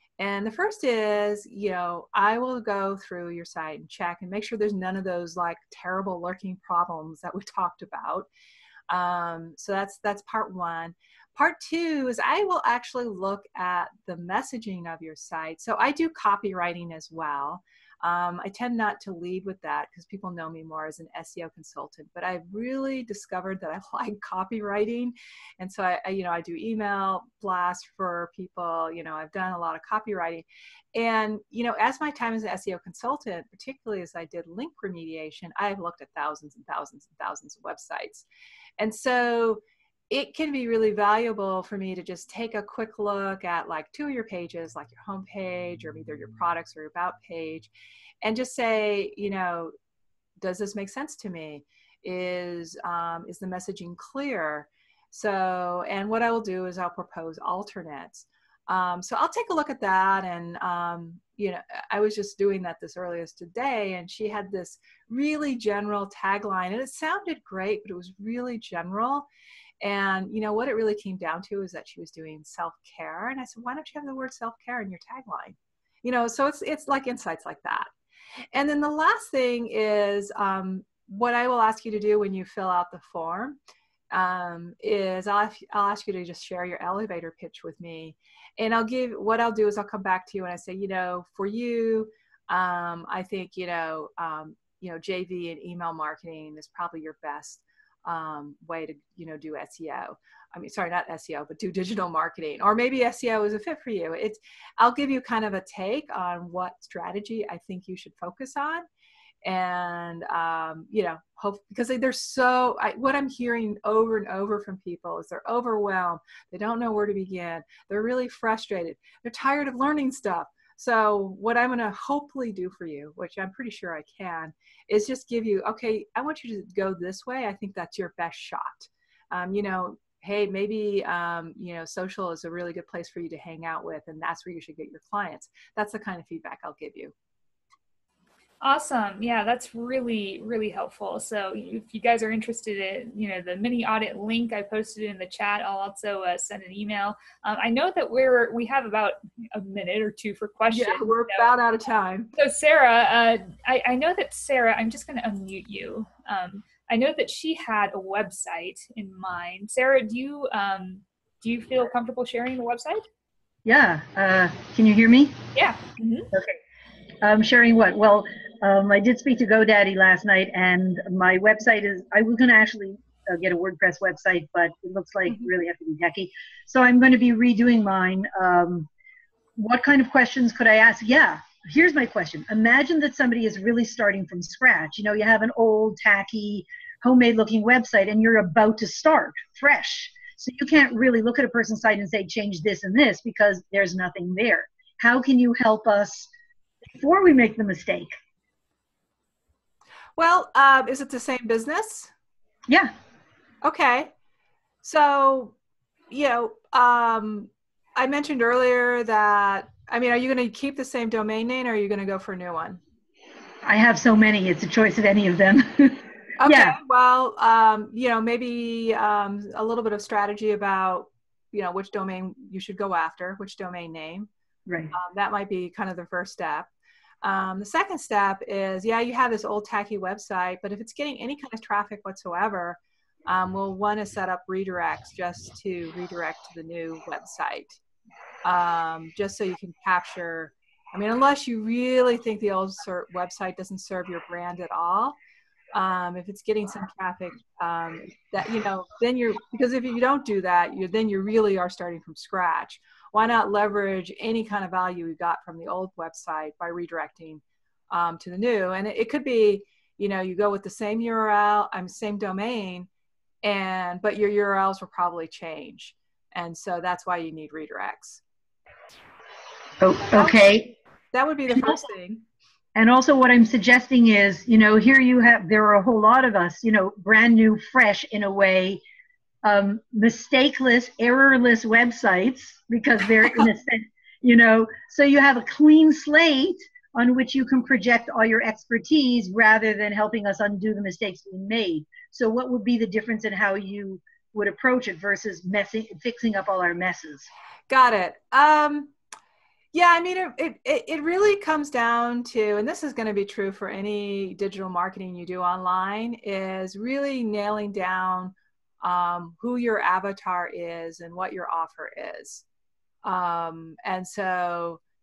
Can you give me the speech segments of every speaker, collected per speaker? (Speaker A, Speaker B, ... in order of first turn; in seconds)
Speaker A: 0.2-8.3, 8.9-38.3, 38.8-47.7, 48.2-49.7, 50.4-69.3, 69.8-77.9, 78.5-83.6, 84.1-108.9, 109.4-137.1, 150.7-152.3, 200.2-202.1, 203.6-204.1, 204.8-205.6, 206.1-212.8, 216.4-224.3, 224.9-226.7, 227.2-237.8, 238.4-245.2, 245.7-262.9, 263.4-268.2, 270.1-270.5, 271.1-272.2, 297.7-298.9, 299.7-312.4, 313.0-314.8
Speaker B: 138.6-151.5, 152.4-163.0, 165.6-166.3
Speaker C: 163.7-165.4, 167.2-178.9, 179.6-196.3, 196.9-198.1, 202.7-202.9, 213.6-216.8, 224.7-224.9, 269.8-270.7, 271.5-271.8, 272.8-278.8, 279.4-297.3